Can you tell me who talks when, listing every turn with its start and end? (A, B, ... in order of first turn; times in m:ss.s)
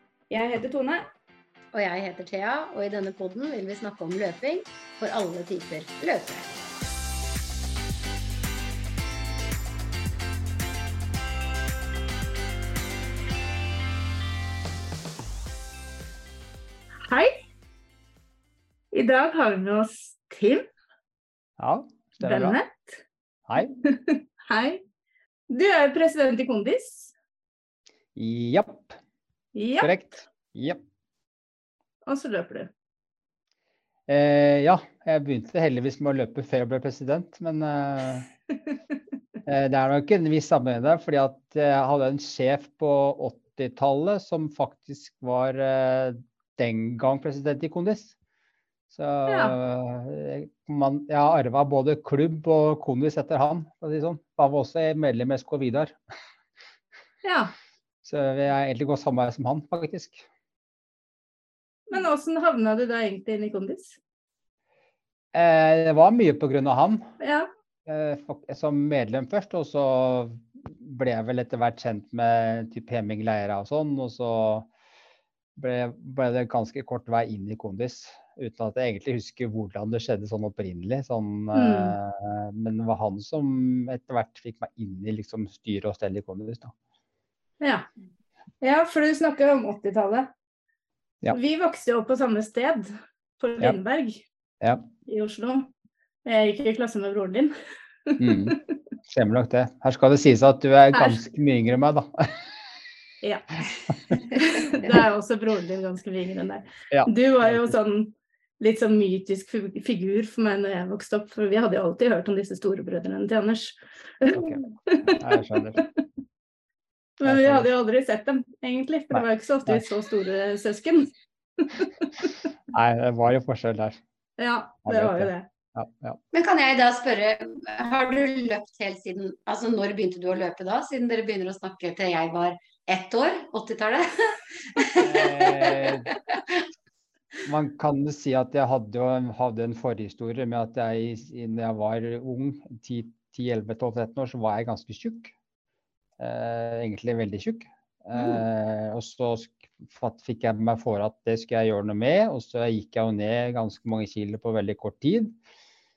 0:00.3-0:01.0 A
0:01.7-0:06.5 B
0:17.1-0:17.3 A
0:18.9-0:20.7 A
0:21.6-0:22.6 C
0:22.2-0:23.0 A
0:23.6-0:24.8 A
0:25.5-0:27.1 A
0:28.2-0:28.9 C
0:29.5-0:30.1 A
0:29.8-0:30.8 C
0:32.1-0:32.7 A
0:34.1-0:38.3 C
0:39.4-0:48.1 C
0:48.9-0:56.0 C
0:49.3-0:49.5 A
0:57.2-0:57.5 A
0:58.0-1:00.3 C
1:01.9-1:04.0 A
1:05.3-1:07.1 C
1:07.2-1:07.5 A
1:07.9-1:14.7 C
1:15.6-1:26.7 C
1:21.5-1:22.0 A
1:27.6-1:27.9 A
1:28.6-1:30.3 A
1:31.3-1:34.2 A
1:35.1-1:35.7 A
1:36.2-1:37.5 A
1:38.1-1:38.6 A
1:38.2-1:42.4 C
1:40.9-1:41.2 A
1:43.2-1:43.6 A
1:44.1-1:55.2 A
1:44.7-1:45.1 C
1:46.9-1:47.8 C
1:54.3-1:55.8 C
1:55.8-1:56.0 A
1:57.2-2:02.3 A
1:57.2-1:57.7 C
1:59.1-1:59.8 C
2:02.7-2:04.0 C
2:04.4-2:05.4 A
2:04.9-2:06.2 C
2:06.3-2:16.7 B
2:15.0-2:16.1 C
2:17.4-2:25.3 C
2:26.2-2:35.3 C